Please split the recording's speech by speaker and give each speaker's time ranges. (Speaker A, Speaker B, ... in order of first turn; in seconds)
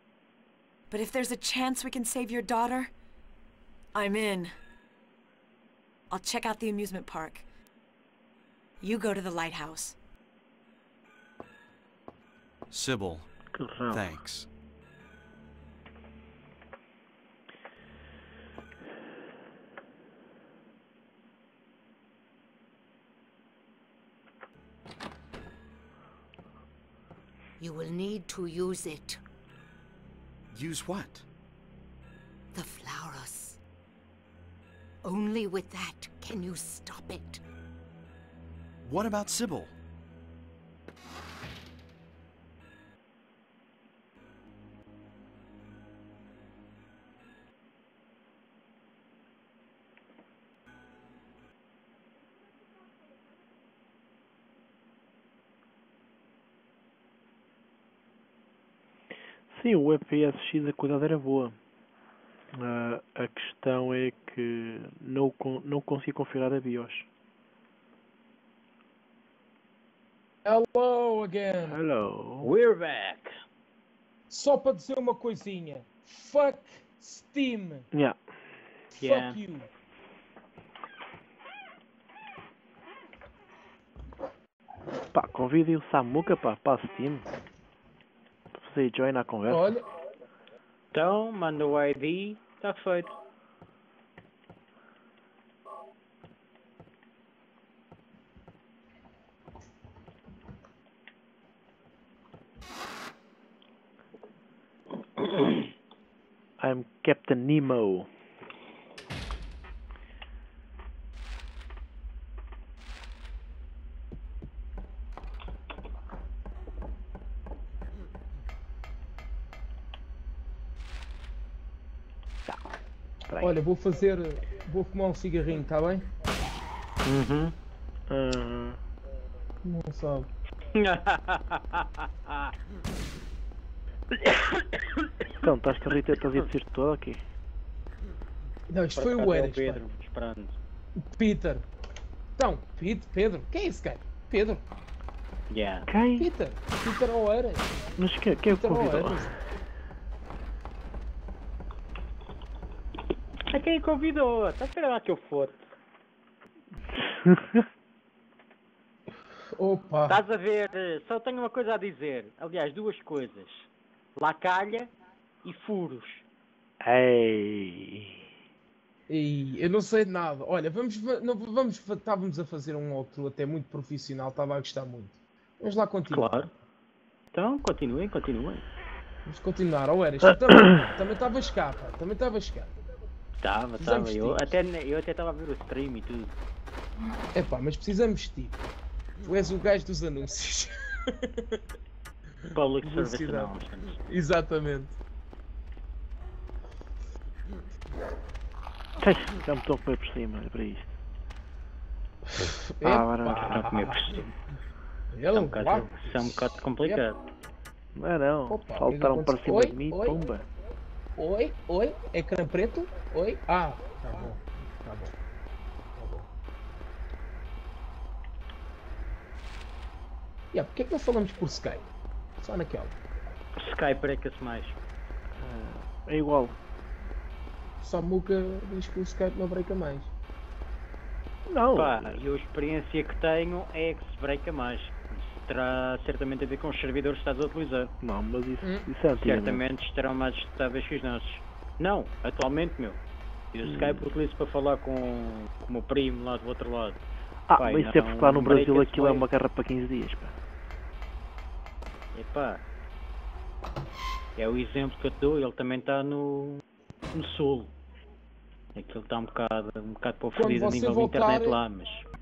Speaker A: 0.9-2.9, 3.9-4.5, 6.1-7.5, 8.8-10.0
Speaker B: 12.7-13.3, 13.9-14.5, 30.5-31.3, 38.8-39.8
Speaker C: 13.5-14.1, 59.5-61.6, 62.5-67.1, 71.7-72.5, 85.1-87.3, 88.6-89.7, 106.6-108.1, 123.3-123.6, 128.1-128.8, 135.4-137.2, 145.9-146.3, 148.0-149.3, 156.9-157.7, 166.8-168.3, 199.0-200.9, 202.8-203.7, 207.9-210.5, 225.4-226.6, 231.5-232.2, 238.0-239.6, 243.6-244.0, 247.5-250.3
Speaker D: 27.6-29.2, 32.5-33.6, 35.0-37.4
Speaker E: 70.4-71.8, 74.3-77.9, 79.0-79.7, 89.5-89.8, 123.4-126.1, 129.6-130.3, 138.7-139.8, 141.0-141.7, 142.4-144.6, 146.2-147.7, 148.5-149.3, 159.5-160.2, 169.1-176.5, 179.3-182.7, 183.8-184.5, 187.3-188.6, 189.2-191.6, 192.5-193.5, 194.1-195.0, 202.3-204.2, 205.1-207.0, 208.5-210.2, 211.2-215.2, 215.9-216.3, 220.5-221.9, 222.4-223.0, 227.8-230.1, 238.6-238.9, 260.4-261.6
Speaker F: 72.4-73.3, 79.0-79.4, 90.9-93.2, 105.2-105.7, 127.0-127.5, 130.7-132.5, 134.3-134.6, 139.0-140.6, 145.5-145.9, 153.5-155.6, 160.1-164.9, 165.4-166.2, 176.1-176.5, 177.3-178.7, 183.4-186.3, 192.6-194.0, 203.4-204.3, 205.3-207.2, 223.6-224.8, 231.8-237.9, 239.2-243.0, 243.5-247.0, 247.6-249.3, 252.1-252.6, 254.4-257.7, 258.8-262.1